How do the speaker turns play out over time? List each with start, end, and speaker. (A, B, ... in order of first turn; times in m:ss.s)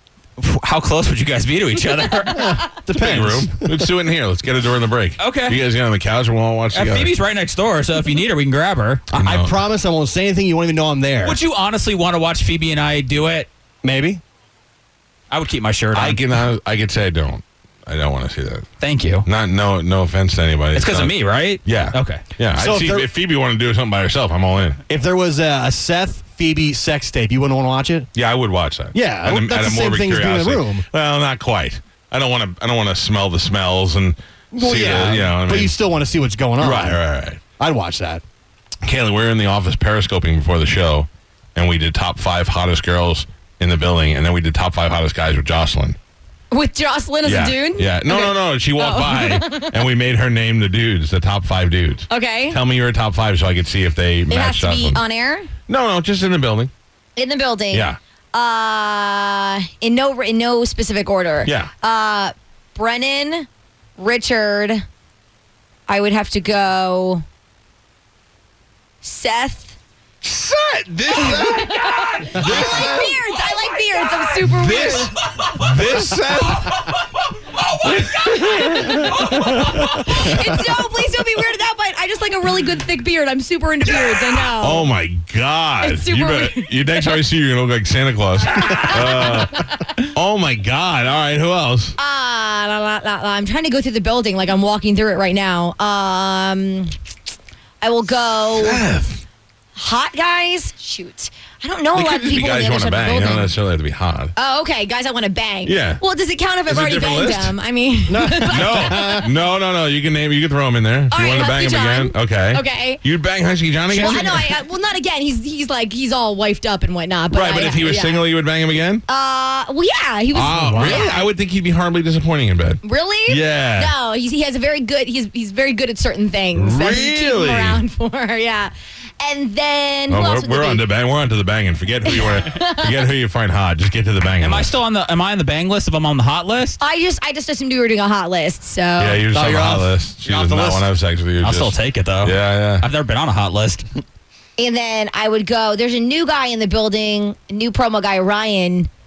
0:00.4-0:02.6 A
0:02.3-0:03.9 B
0:02.9-0:07.1 C
0:05.2-0:05.6 A
0:06.7-0:09.1 A
0:09.1-0:09.6 C
0:09.1-0:11.4 B
0:11.2-0:13.5 A
0:13.8-0:14.2 B
0:15.3-0:16.2 A
0:15.9-0:18.6 C
0:18.8-0:19.3 A
0:19.2-0:21.1 C
0:20.7-0:22.2 A
0:21.6-0:24.8 C
0:22.5-0:23.1 B
0:24.9-0:28.1 B
0:28.1-0:35.8 C
0:28.9-0:30.9 B
0:34.5-0:37.0 B
0:36.6-0:37.4 C
0:37.6-0:38.2 B
0:38.8-0:46.0 C
0:46.5-0:49.9 D
0:47.2-0:55.0 C
0:52.1-0:52.6 D
0:54.3-0:55.5 D
0:55.7-0:56.7 C
0:57.2-1:04.8 D
0:57.7-0:58.0 C
1:01.4-1:01.7 C
1:05.9-1:07.2 D
1:09.0-1:09.8 D
1:10.2-1:13.4 C
1:11.1-1:15.1 D
1:14.4-1:17.0 C
1:16.6-1:17.0 A
1:17.6-1:20.0 A
1:17.8-1:20.6 C
1:18.9-1:24.9 D
1:23.9-1:32.0 C
1:25.8-1:27.2 D
1:28.5-1:30.0 D
1:32.0-1:36.9 D
1:37.8-1:38.8 D
1:38.5-1:39.2 C
1:39.8-1:43.5 D
1:41.9-1:44.3 C
1:44.3-1:49.3 D
1:45.6-1:46.0 C
1:46.6-1:47.5 C
1:48.1-1:49.3 B
1:48.4-1:54.6 C
1:51.1-1:53.0 D
1:53.9-1:54.3 B
1:53.9-1:58.3 D
1:57.3-1:59.0 C
1:59.1-2:01.3 D
2:00.3-2:03.9 C
2:00.4-2:01.1 B
2:02.8-2:10.8 D
2:06.5-2:07.8 C
2:10.1-2:14.7 C
2:12.1-2:13.0 D
2:14.4-2:16.8 A
2:16.8-2:19.2 D
2:19.0-2:22.9 C
2:19.3-2:20.9 B
2:21.4-2:23.9 A
2:24.6-2:28.9 D